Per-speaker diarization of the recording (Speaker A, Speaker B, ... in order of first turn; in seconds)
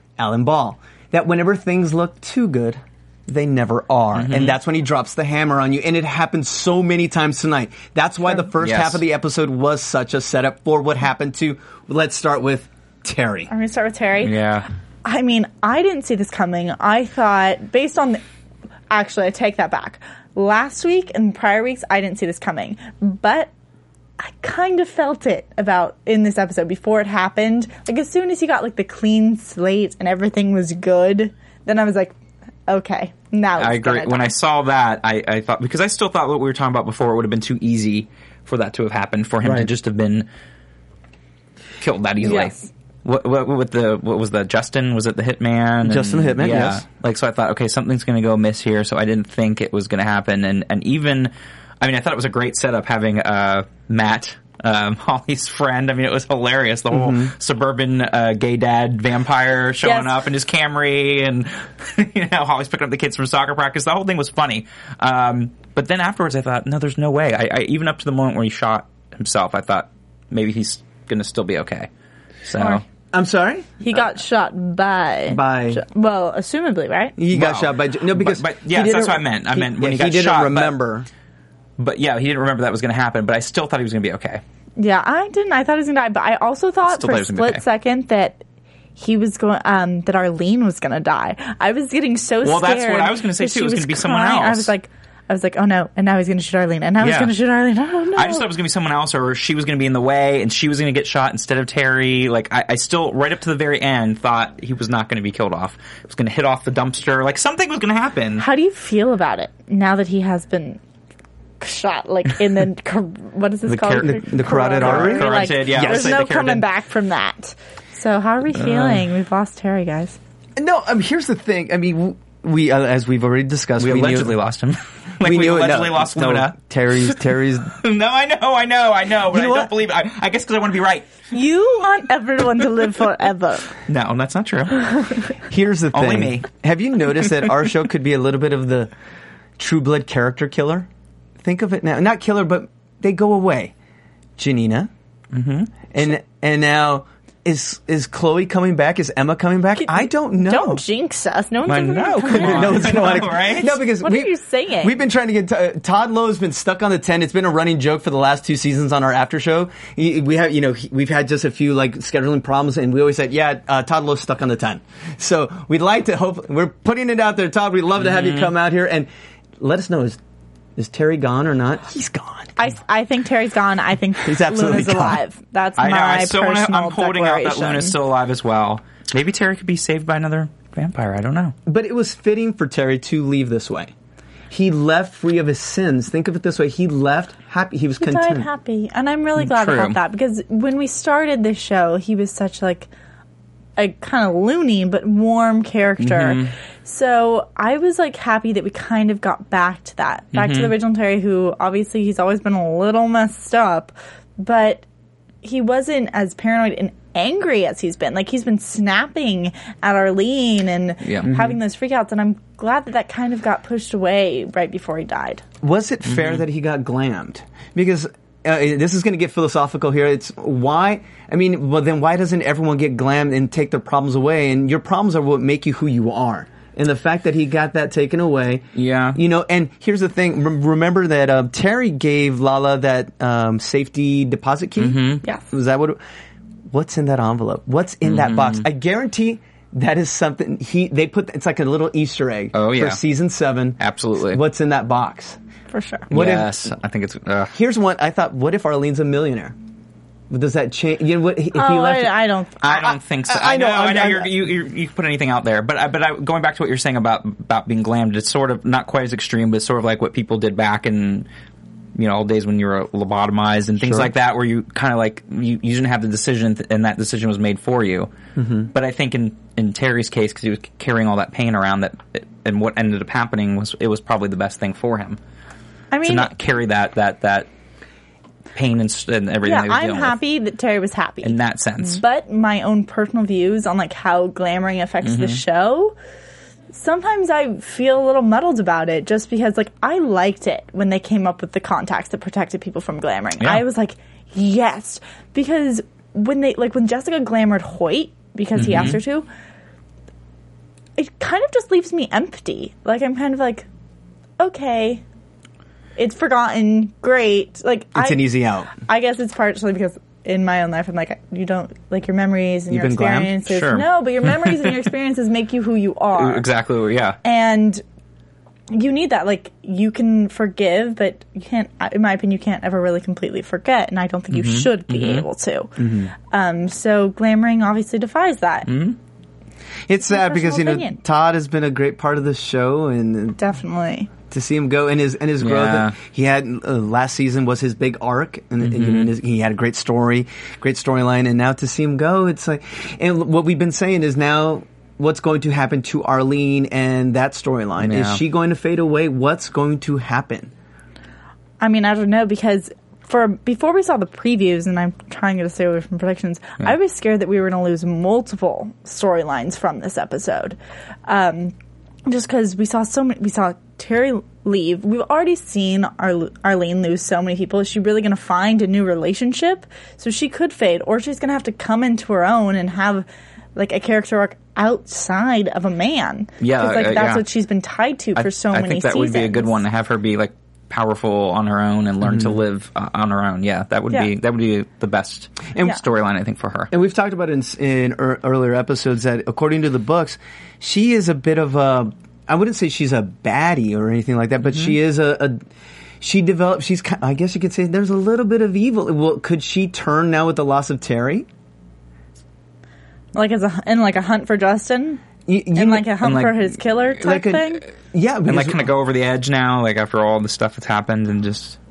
Speaker A: 0.2-13.5, 39.4-39.7, 45.8-46.8, 56.9-57.3, 73.1-73.7, 75.3-75.8, 77.2-81.1, 114.0-116.2, 120.6-124.3, 125.2-127.7, 129.3-129.7, 135.5-138.9, 139.6-140.9, 141.4-143.7, 144.4-144.9, 145.9-150.8, 152.3-169.1, 169.6-170.2, 170.8-172.5, 174.2-175.2, 181.7-183.9, 184.5-188.5, 215.6-236.0, 236.7-245.4, 246.1-246.6, 247.5-249.6, 250.3-254.3, 263.8-264.1, 268.4-268.7, 307.9-308.7, 312.7-313.4, 325.8-326.1, 329.9-333.4, 334.3-350.5, 382.0-382.4, 386.7-395.4, 396.0-401.3, 405.3-406.1, 407.0-408.7
Speaker B: 4.2-4.5, 8.6-9.0, 14.2-14.7, 33.6-40.3, 41.8-71.9, 72.5-72.8, 77.3-80.8, 81.8-84.4, 86.9-87.6, 92.4-94.7, 97.0-97.3, 98.1-108.5, 113.7-116.6, 118.5-119.0, 123.8-126.6, 127.7-131.1, 133.9-134.8, 135.9-136.4, 145.3-145.7, 151.7-153.8, 168.0-168.5, 175.8-181.6, 189.4-190.0, 196.0-196.5, 200.3-200.7, 211.0-211.5, 216.1-216.4, 228.8-229.2, 234.8-235.2, 238.0-238.6, 242.5-243.0, 243.8-244.4, 246.1-247.6, 252.6-261.3, 262.0-268.1, 268.7-275.2, 276.0-277.5, 278.6-280.2, 281.2-282.0, 285.0-285.4, 293.4-293.6, 298.6-299.0, 313.5-314.7, 316.1-317.2, 324.3-325.3, 328.7-329.0, 335.4-336.0, 338.6-339.1, 347.8-348.2, 376.4-377.2, 378.2-386.7, 394.5-394.8, 406.0-406.5, 408.3-411.6
Speaker C: 13.5-14.4, 15.1-18.2, 18.9-23.5, 24.2-32.1, 32.7-34.3, 42.2-42.7, 59.8-60.1, 73.8-77.2, 84.8-88.4, 89.0-98.5, 108.4-110.8, 111.6-120.2, 131.3-133.7, 149.8-155.0, 172.6-177.9, 188.0-192.9, 193.8-204.8, 205.4-215.4, 245.7-246.1, 251.6-252.6, 275.9-276.3, 279.4-286.0, 286.7-299.3, 301.0-303.7, 304.4-305.0, 306.0-316.5, 317.2-317.8, 318.7-325.7, 326.3-328.7, 330.1-331.0, 333.4-334.1, 351.6-361.5, 362.1-379.6, 403.1-407.6